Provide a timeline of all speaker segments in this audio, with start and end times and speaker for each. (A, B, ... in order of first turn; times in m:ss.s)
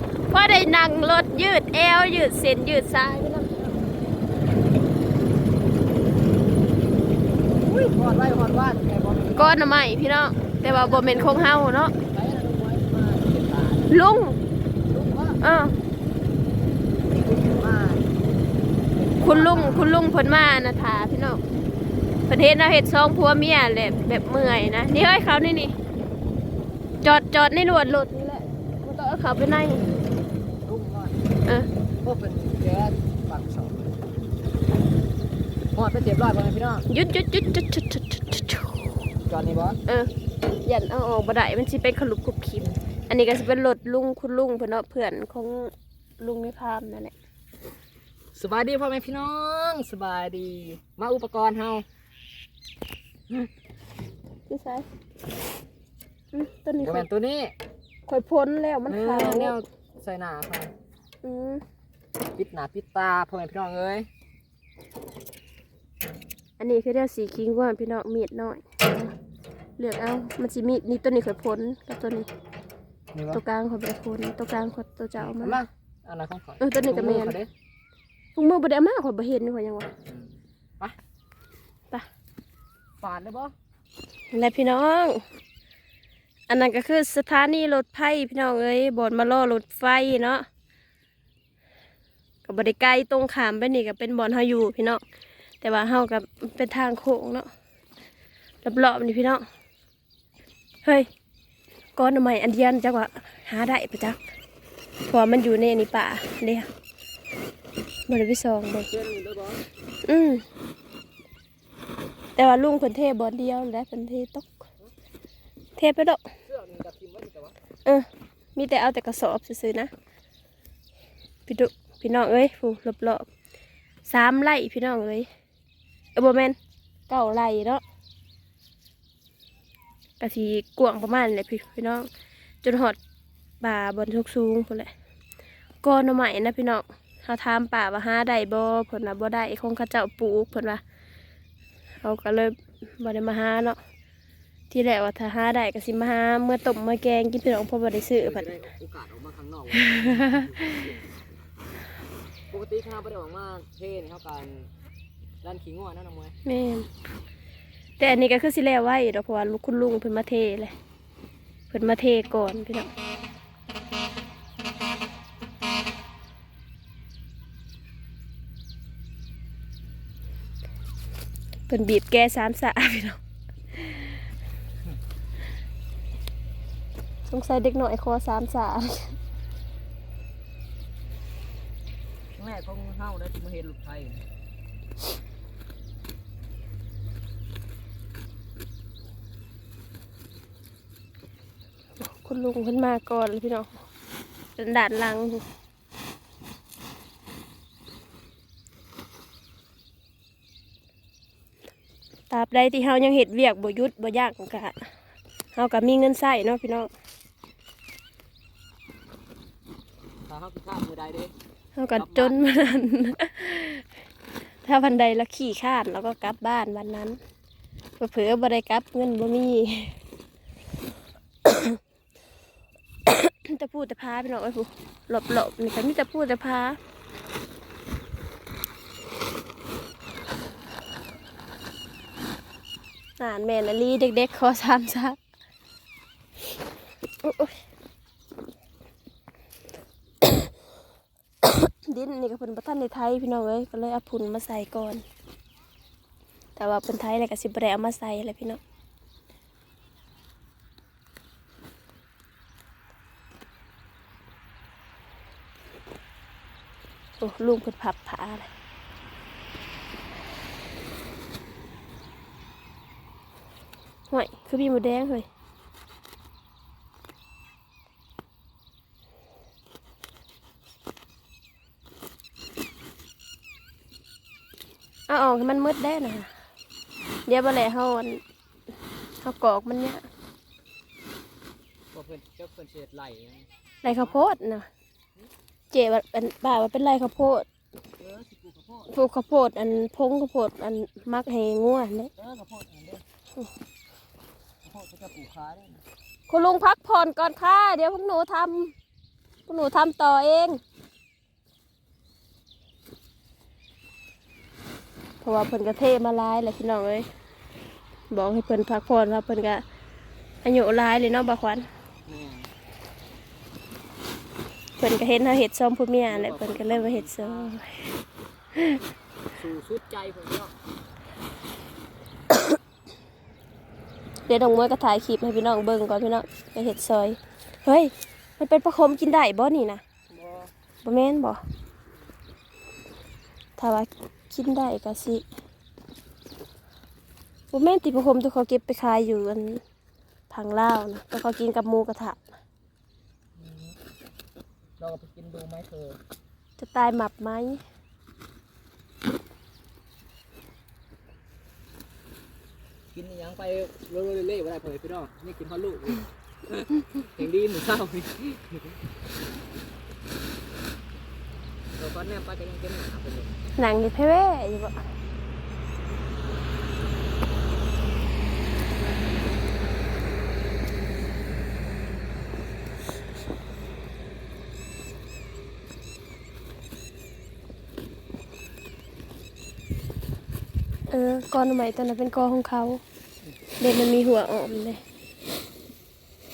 0:00.3-0:03.6 A
0:07.6-0:09.6 B
0:09.4-0:11.9 A
0:10.6-0:11.4 B
0:12.1-0:13.9 B
0:13.9-0:14.4 A
0:14.9-0:15.4 B
0:15.4-0:15.8 A
0:17.1-0:18.1 B
0:19.0-0:20.0 B
0:19.2-0:21.4 A
0:22.3-0:25.8 A
0:27.0-0:29.8 A
0:30.6-0:31.2 B
0:32.0-0:33.9 B
0:35.8-0:36.9 B
0:36.9-0:39.0 A
0:39.3-0:39.8 B
0:40.6-0:47.1 A
0:48.4-0:51.8 B
0:54.5-0:54.9 A
0:56.3-0:57.1 A
0:56.8-0:57.5 B
0:58.1-0:59.6 A
0:58.9-1:00.7 B
1:01.2-1:01.6 A
1:02.4-1:04.1 B
1:06.6-1:09.1 A
1:09.8-1:12.3 A
1:13.1-1:13.4 B
1:13.3-1:15.6 A
1:15.2-1:17.5 B
1:16.6-1:17.4 A
1:18.4-1:19.9 A
1:20.1-1:21.0 B
1:23.0-1:23.5 B
1:24.3-1:25.2 A
1:26.5-1:30.4 A
1:32.4-1:35.0 A
1:35.6-1:37.5 A
1:38.6-1:39.4 A
1:42.0-1:44.2 A
1:45.1-1:46.7 A
1:48.1-1:48.9 A
1:48.9-1:49.6 B
1:50.0-1:50.4 A
1:52.4-1:54.7 A
1:55.8-1:56.2 A
1:56.5-1:57.6 B
1:57.8-1:59.9 A
2:01.5-2:03.3 A
2:04.0-2:05.3 A
2:06.2-2:06.6 A
2:07.1-2:07.8 A
2:10.2-2:12.0 A
2:12.6-2:13.0 A
2:13.6-2:14.9 A
2:15.8-2:20.8 A
2:22.0-2:23.8 A
2:24.7-2:28.4 A
2:28.2-2:30.9 B
2:30.0-2:30.6 A
2:32.5-2:34.7 B
2:35.4-2:36.4 B
2:36.4-2:36.9 A
2:38.0-2:40.7 A
2:41.7-2:42.9 A
2:51.7-2:53.2 A
2:53.8-2:54.1 A
2:57.3-2:59.1 A
3:02.4-3:04.2 B
3:12.0-3:13.8 A
3:14.6-3:15.4 A
3:22.3-3:24.8 A
3:25.6-3:26.9 A
3:30.3-3:31.3 B
3:31.8-3:33.9 A
3:32.0-3:32.4 B
3:34.6-3:37.2 A
3:38.0-3:40.0 A
3:41.4-3:41.8 A
3:43.1-3:46.8 A
3:53.2-3:55.2 A
3:57.2-3:57.6 A
4:00.2-4:00.5 A
4:01.4-4:05.0 A
4:06.6-4:08.6 A
4:17.2-4:18.5 A
4:24.1-4:25.3 A
4:35.1-4:36.3 A
4:37.3-4:38.2 A
4:39.2-4:40.0 A
4:41.9-4:44.2 B
4:43.8-4:44.7 A
4:45.7-4:47.5 A
4:48.0-4:48.9 B
4:48.9-4:52.1 A
4:52.2-4:53.0 B
4:54.6-4:55.8 B
4:56.3-4:58.7 A
4:59.5-5:00.6 A
5:05.2-5:07.1 A
5:08.1-5:09.6 A
5:10.4-5:11.7 A
5:12.1-5:12.5 B
5:14.8-5:17.9 A
5:16.1-5:17.6 B
5:19.4-5:20.5 B
5:24.3-5:29.8 A
5:30.1-5:30.5 B
5:30.8-5:31.4 A
5:33.6-5:35.2 A
5:37.5-5:39.6 A
5:40.3-5:42.2 A
5:43.4-5:43.8 B
5:44.8-5:46.0 B
5:46.6-5:47.6 A
5:52.9-5:58.7 B
6:01.8-6:03.4 B
6:03.6-6:04.8 A
6:20.9-6:22.8 A
6:23.6-6:24.8 A